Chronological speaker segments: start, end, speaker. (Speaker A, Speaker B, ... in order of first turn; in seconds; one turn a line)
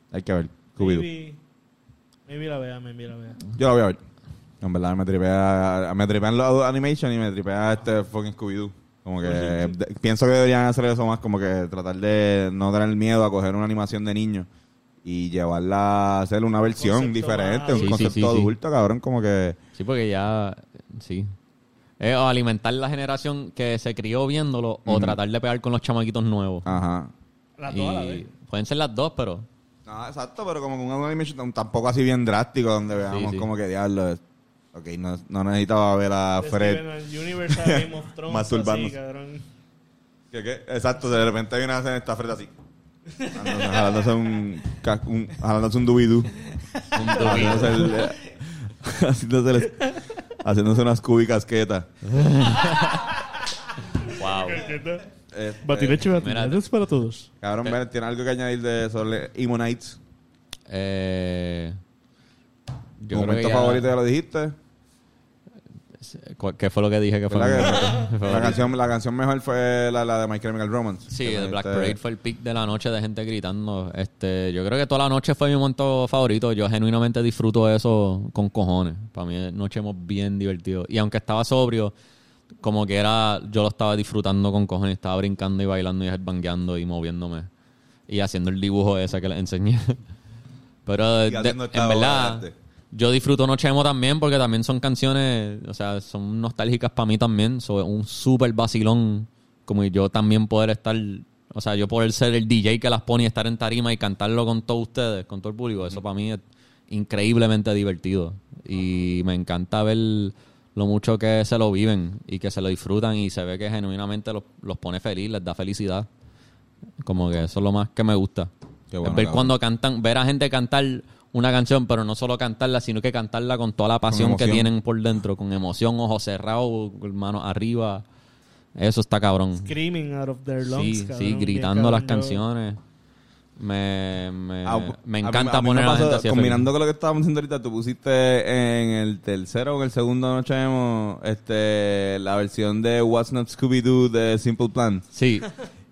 Speaker A: 0.1-1.1
Speaker B: 0.8-1.4
Speaker B: 2.3-3.5
Speaker A: 3.5-4.0
Speaker A: 4.6-14.5
Speaker B: 9.2-9.8
Speaker A: 15.0-19.6
Speaker B: 16.8-18.2
Speaker C: 17.7-18.5
Speaker C: 19.8-21.3
Speaker C: 22.0-26.7
Speaker A: 24.9-25.2
Speaker A: 26.6-27.1
Speaker B: 27.6-28.3
Speaker C: 27.7-29.5
Speaker A: 29.9-34.2
Speaker C: 33.1-33.5
Speaker A: 34.7-36.9
Speaker B: 36.4-39.4
Speaker A: 37.5-39.0
Speaker A: 40.3-42.5
Speaker B: 43.2-43.9
Speaker A: 43.3-46.4
Speaker C: 46.9-48.0
Speaker A: 47.1-51.9
Speaker B: 47.3-48.1
Speaker C: 52.0-53.1
Speaker B: 52.7-53.0
Speaker B: 54.0-55.1
Speaker C: 54.1-54.7
Speaker A: 55.3-56.1
Speaker B: 55.6-57.3
Speaker C: 56.1-56.6
Speaker A: 57.4-60.0
Speaker C: 60.7-61.8
Speaker C: 63.0-63.9
Speaker A: 63.1-64.5
Speaker C: 66.0-68.6
Speaker A: 67.3-72.0
Speaker C: 71.1-81.9
Speaker C: 82.6-87.5
Speaker C: 88.1-90.0
Speaker C: 90.9-116.1
Speaker A: 91.3-92.5
Speaker C: 117.0-118.5
Speaker A: 118.9-119.5
Speaker C: 119.0-128.0
Speaker A: 124.1-124.7
Speaker C: 128.8-129.7
Speaker B: 129.7-132.4
Speaker C: 130.6-132.8
Speaker C: 133.6-136.7
Speaker A: 134.7-145.1
Speaker C: 145.1-145.5